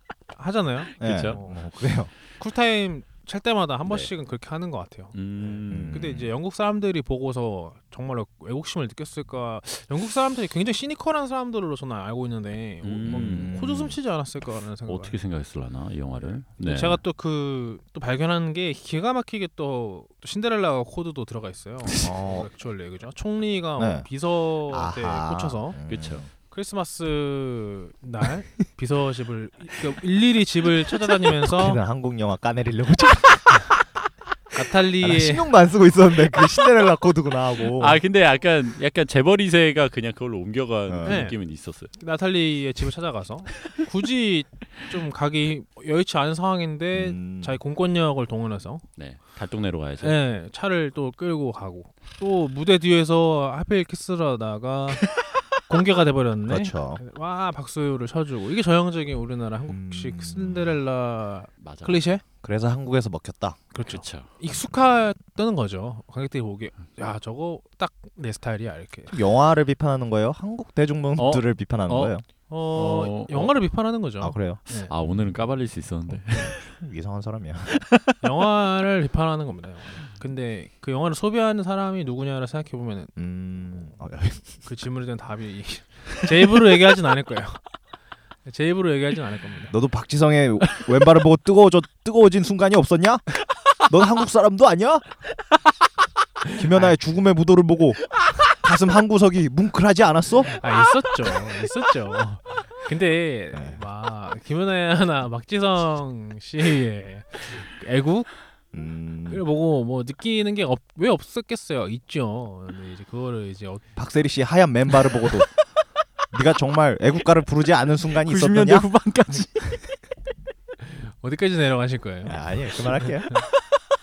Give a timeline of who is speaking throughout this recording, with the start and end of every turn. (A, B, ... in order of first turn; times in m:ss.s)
0:00.3-0:01.6 A
0:01.0-0:01.4 B
0:01.0-0:02.1 C
0:02.4-0:15.2 A
0:03.8-0:04.1 B
0:05.1-0:06.1 B
0:05.7-0:06.3 C
0:12.8-0:13.5 B
0:13.0-0:14.0 C
0:14.9-0:17.0 B
0:16.6-0:25.8 A
0:21.9-0:22.5 C
0:23.8-0:24.1 C
0:24.7-0:26.2 C
0:25.9-0:26.3 B
0:26.5-0:31.8 A
0:31.3-0:33.7 C
0:34.5-0:35.5 A
0:35.0-0:38.0 C
0:37.7-0:41.9 B
0:40.9-0:41.3 C
0:41.0-0:41.4 A
0:41.9-0:48.8 A
0:46.9-0:47.6 C
0:49.0-0:50.2 B
0:50.0-0:55.1 A
0:55.7-1:02.2 A
0:56.5-0:57.0 C
0:59.7-1:00.8 C
1:01.6-1:02.0 B
1:02.4-1:03.6 C
1:03.7-1:09.2 A
1:03.9-1:04.3 B
1:09.1-1:12.2 C
1:11.2-1:12.1 B
1:12.5-1:14.9 A
1:12.7-1:13.6 B
1:14.2-1:14.6 C
1:14.9-1:16.6 B
1:16.1-1:17.8 C
1:18.2-1:23.1 A
1:23.2-1:24.5 C
1:24.6-1:27.6 A
1:28.4-1:29.7 A
1:29.7-1:33.3 C
1:33.8-1:35.1 C
1:36.5-1:40.6 C
1:36.7-1:37.0 A
1:40.6-1:48.3 A
1:43.5-1:43.8 C
1:48.7-1:49.4 C
1:49.3-1:53.8 A
1:53.9-1:55.5 C
1:56.3-1:58.9 C
1:58.1-1:59.8 B
2:00.9-2:02.4 A
2:02.2-2:03.3 C
2:03.0-2:03.4 A